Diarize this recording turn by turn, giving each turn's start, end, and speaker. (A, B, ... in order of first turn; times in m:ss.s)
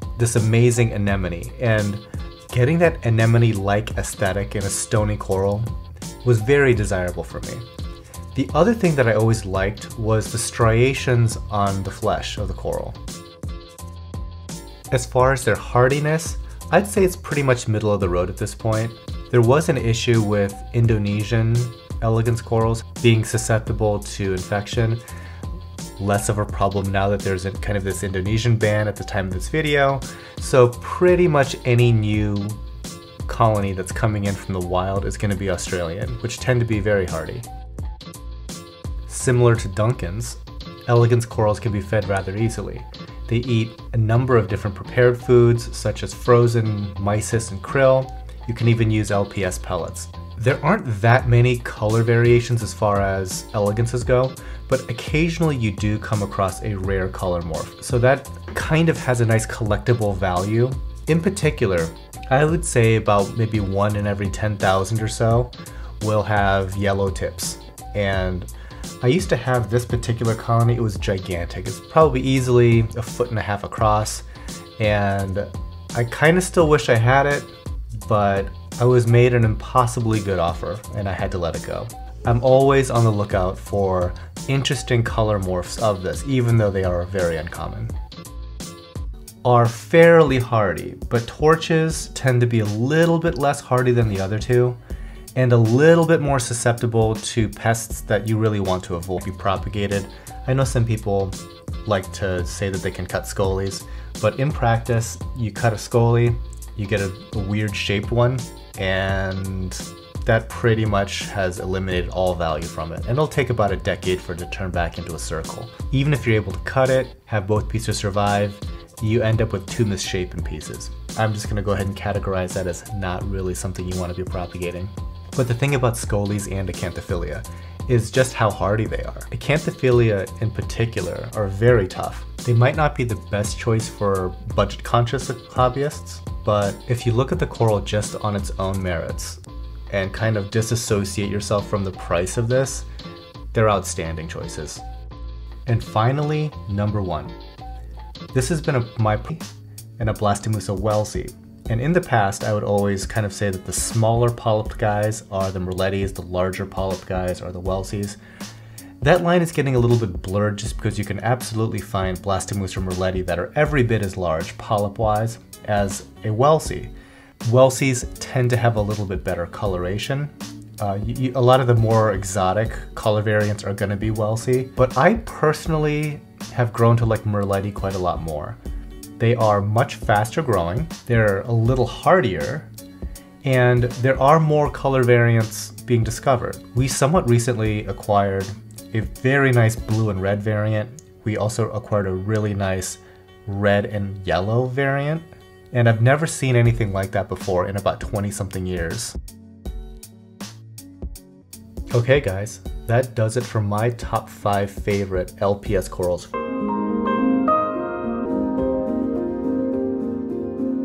0:00.2-0:05.7 A
0:06.2-0:07.6 A
0:08.3-0:13.0 A
0:14.9-0:25.0 A
0:26.0-0:32.6 A
0:33.3-0:37.5 A
0:39.1-1:08.5 A
1:09.0-1:14.2 A
1:14.8-1:17.5 A
1:18.0-1:27.9 A
1:29.4-1:34.8 A
1:35.4-2:22.8 A
2:23.5-2:24.8 A
2:25.6-2:27.3 A
2:28.3-2:29.5 A
2:30.0-2:38.2 A
2:39.0-2:46.9 A
2:47.4-2:58.6 A
2:59.2-3:02.7 A
3:03.4-3:19.2 A
3:21.9-3:26.3 A